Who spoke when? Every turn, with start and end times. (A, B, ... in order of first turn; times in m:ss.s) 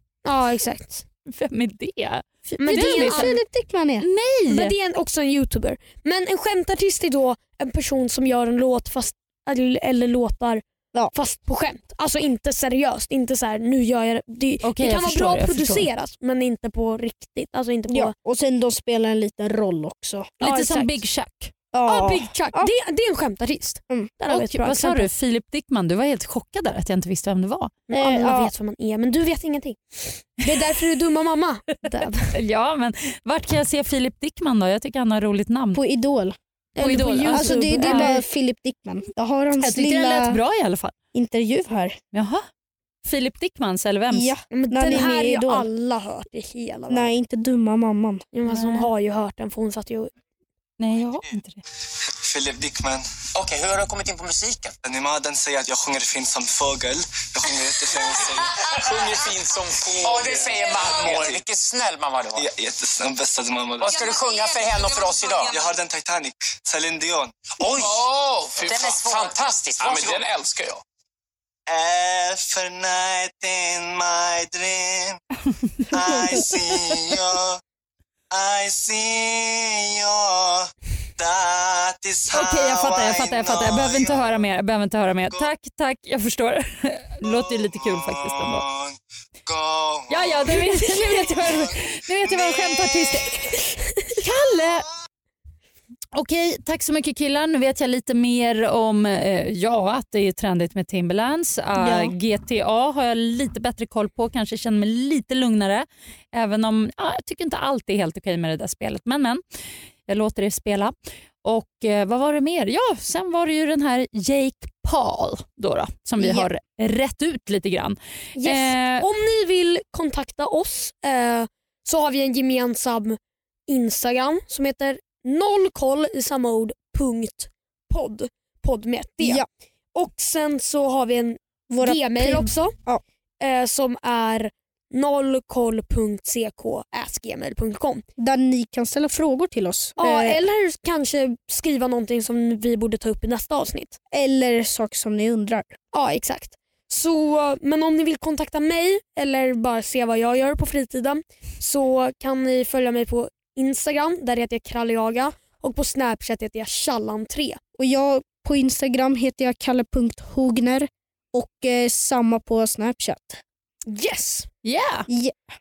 0:00.2-0:01.0 A
0:01.3-0:03.4 B
0:02.6-0:03.3 A
0:02.6-0:04.1 C
0:04.0-0:04.7 B
0:04.5-0:18.1 A
0:14.6-0:15.9 B
0:17.9-0:20.3 C
0:20.4-0:21.5 B
0:20.4-0:21.0 A
0:21.7-0:22.7 C
0:21.8-0:25.1 A
0:24.3-0:27.7 B
0:27.9-0:32.3 A
0:27.9-0:28.5 C
0:32.3-0:35.8 B
0:35.7-0:36.4 C
0:36.8-0:38.2 A
0:36.8-0:38.1 B
0:37.3-0:40.4 C
0:39.6-0:40.9 B
0:41.1-0:42.0 C
0:42.1-0:42.4 B
0:43.0-0:44.3 B
0:44.1-0:45.7 C
0:44.5-0:47.1 A
0:46.9-0:48.2 C
0:48.3-0:50.1 A
0:48.5-0:48.9 B
0:50.8-0:51.6 B
0:52.1-0:53.0 D
0:53.3-0:54.7 E
0:54.8-0:59.2 D
0:58.5-1:02.4 E
0:59.9-1:01.4 D
1:02.3-1:04.3 D
1:03.8-1:05.6 E
1:05.4-1:08.0 D
1:07.6-1:10.8 E
1:08.6-1:10.3 D
1:11.7-1:15.2 D
1:15.6-1:16.5 B
1:15.9-1:17.6 D
1:18.3-1:24.4 D
1:22.3-1:28.6 B
1:27.2-1:30.5 D
1:30.1-1:33.4 B
1:31.1-1:31.7 D
1:32.2-1:33.2 D
1:34.1-1:34.8 B
1:36.1-1:49.4 B
1:41.8-1:42.1 C
1:50.1-1:59.0 B
1:56.2-1:56.5 A
1:58.4-2:12.7 A
2:09.2-2:09.5 C
2:11.7-2:13.0 C
2:13.4-2:18.0 A
2:18.2-2:20.4 C
2:20.0-2:24.0 A
2:24.1-2:25.7 C
2:25.9-2:37.6 A
2:37.8-2:43.4 C
2:43.9-2:44.5 A
2:44.6-2:45.1 B
2:45.1-2:45.4 C